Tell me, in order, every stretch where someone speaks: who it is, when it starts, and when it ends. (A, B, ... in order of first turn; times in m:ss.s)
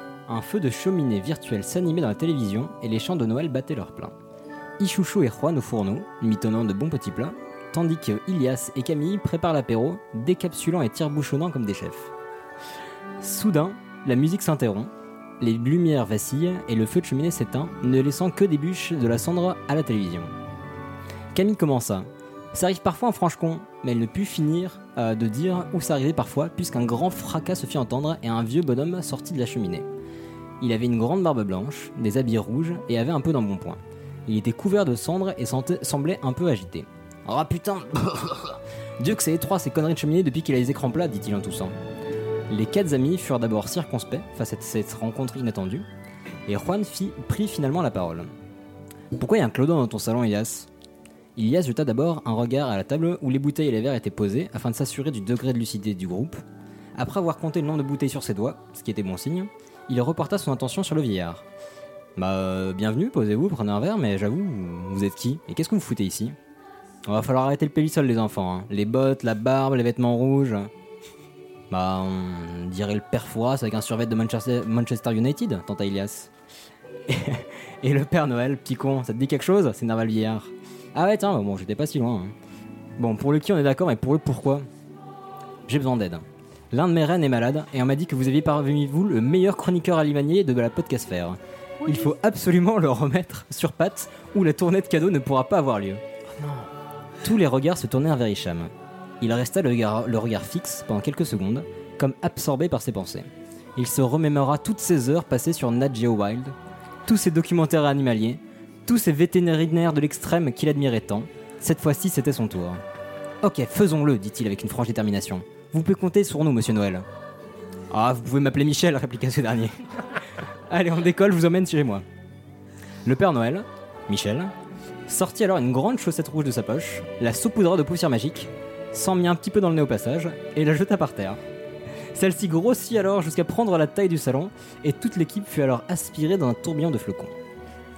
0:00.3-0:04.1 A
0:04.8-0:12.1 A
0:13.2-0:20.3 A
0:21.3-0:29.9 A
0:30.6-0:41.8 A
0:42.5-0:45.9 A
0:46.5-0:48.3 A
0:49.2-0:50.7 A
0:51.4-0:56.4 A
0:57.0-1:01.4 A
1:02.2-1:06.4 A
1:07.1-1:10.7 A
1:11.7-1:16.3 A
1:17.1-1:22.4 A
1:23.0-1:24.7 A
1:25.7-1:36.7 A
1:37.2-1:46.6 A
1:47.1-1:52.8 A
1:53.4-1:57.1 A
1:57.9-1:59.8 A
2:00.7-2:02.0 A
2:03.0-2:04.5 A
2:05.1-2:11.4 A
2:12.2-2:17.4 A